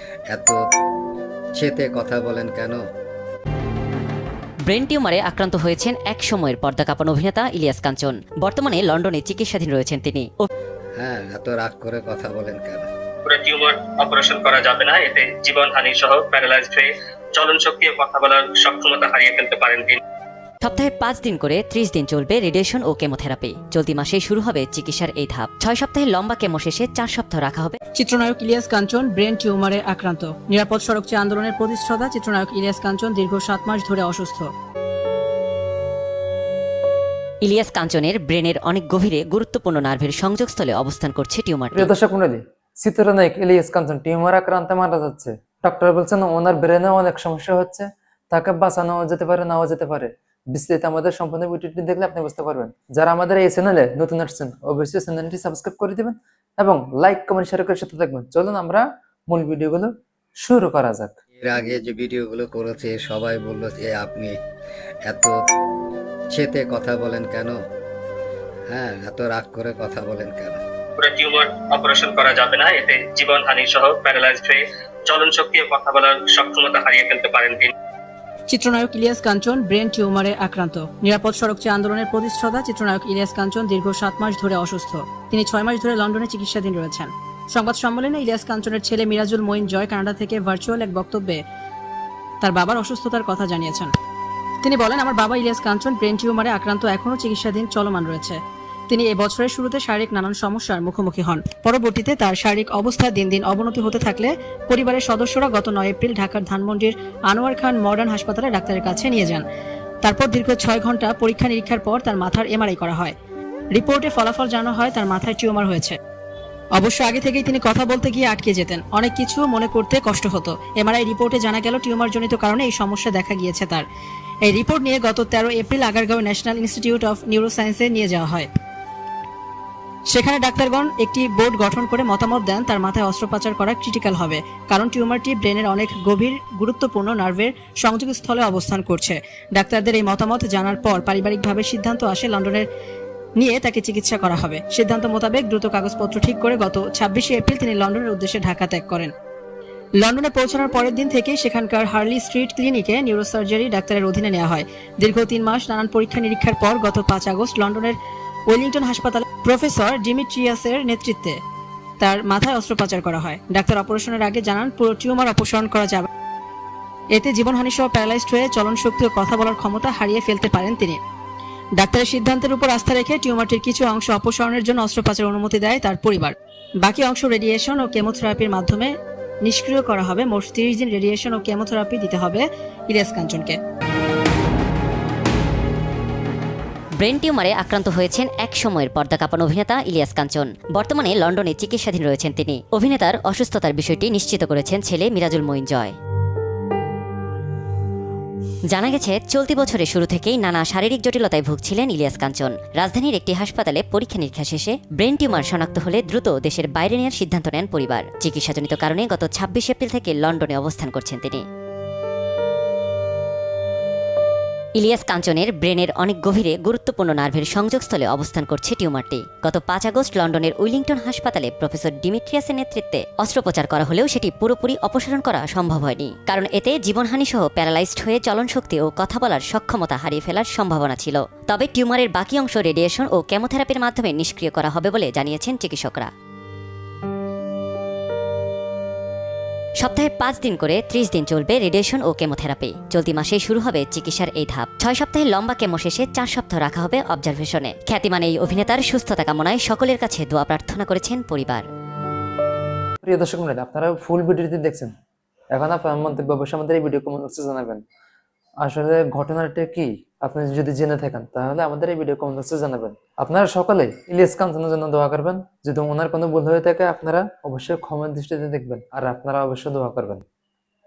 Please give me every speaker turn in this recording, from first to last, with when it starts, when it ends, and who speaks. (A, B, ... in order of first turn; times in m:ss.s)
0:00.3-0:00.6 A
0:01.6-0:02.8 A
0:04.7-0:10.4 B
0:11.0-0:12.9 A
0:13.2-0:20.0 C
0:20.6-0:27.8 B
0:28.0-0:34.5 D
0:37.4-0:41.9 B
0:41.7-0:59.9 E
1:00.4-1:01.1 E
1:01.4-1:04.3 A
1:05.1-1:05.4 A
1:06.3-1:07.6 A
1:08.7-1:10.6 A
1:11.0-1:17.7 C
1:18.5-1:31.4 D
1:32.4-1:33.9 D
1:34.6-1:49.4 D
1:50.0-1:53.1 D
1:53.7-1:56.0 D
1:56.7-2:03.8 D
2:04.4-2:08.5 D
2:10.1-2:22.7 D
2:23.4-2:29.1 D
2:30.0-2:38.0 D
2:38.5-2:41.4 D
2:42.0-2:46.1 D
2:47.1-2:51.0 D
2:51.8-3:03.6 D
3:07.0-3:15.9 B
3:18.7-3:31.4 B
3:34.8-3:56.1 B
3:59.8-4:11.6 B
4:13.0-4:14.9 E
4:15.5-4:17.8 E
4:18.6-4:30.2 E